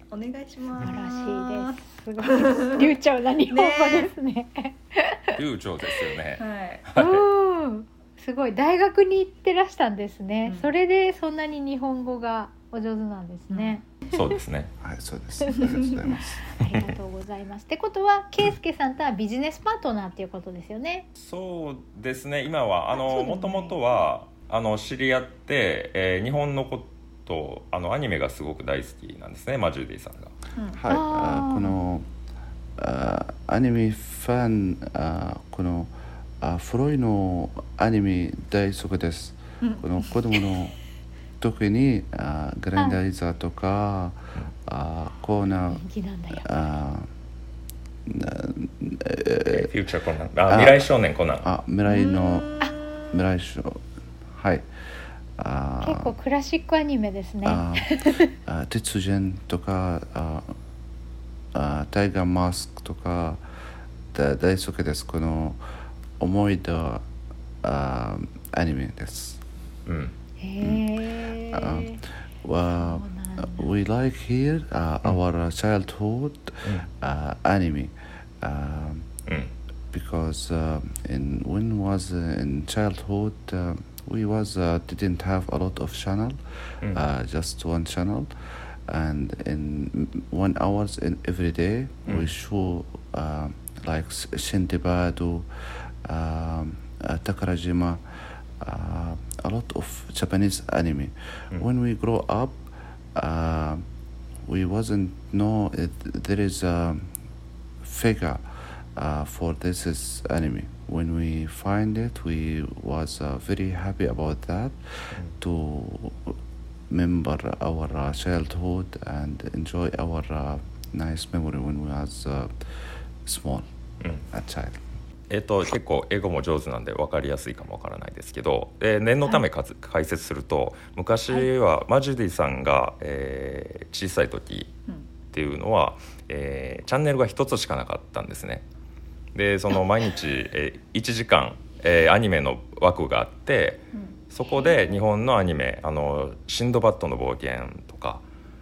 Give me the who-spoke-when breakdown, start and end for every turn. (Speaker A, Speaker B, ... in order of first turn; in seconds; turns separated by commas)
Speaker A: 0.1-2.9, Speaker B: 0.8-5.4, Speaker A: 3.5-4.1, Speaker C: 5.4-7.3, Speaker A: 6.4-6.8, Speaker B: 7.0-14.3, Speaker A: 10.4-10.7, Speaker A: 13.5-13.8, Speaker C: 14.1-14.7, Speaker D: 14.8-16.4, Speaker B: 16.5-21.1, Speaker C: 21.2-30.3, Speaker B: 22.9-23.8, Speaker D: 30.7-32.1, Speaker B: 30.9-31.8, Speaker D: 32.8-40.8, Speaker A: 39.6-40.4, Speaker D: 41.4-45.8, Speaker B: 45.7-46.6, Speaker D: 46.4-47.1, Speaker D: 48.1-49.7, Speaker C: 49.5-51.5, Speaker D: 50.5-50.9, Speaker D: 51.4-52.6, Speaker A: 51.9-53.1, Speaker D: 53.1-54.7, Speaker D: 55.4-56.1, Speaker B: 55.8-58.3, Speaker D: 57.4-60.5, Speaker D: 61.5-63.4, Speaker D: 64.1-65.6, Speaker D: 66.2-67.0, Speaker D: 67.6-69.4, Speaker C: 69.9-70.1, Speaker B: 70.4-72.0, Speaker D: 70.6-70.9, Speaker D: 71.5-79.1, Speaker B: 72.6-73.7, Speaker D: 79.9-103.8, Speaker C: 92.1-92.3, Speaker D: 104.5-107.1, Speaker D: 107.8-116.4, Speaker D: 116.9-123.7, Speaker D: 124.3-124.8, Speaker C: 125.3-134.7, Speaker C: 135.3-138.7, Speaker C: 139.3-148.2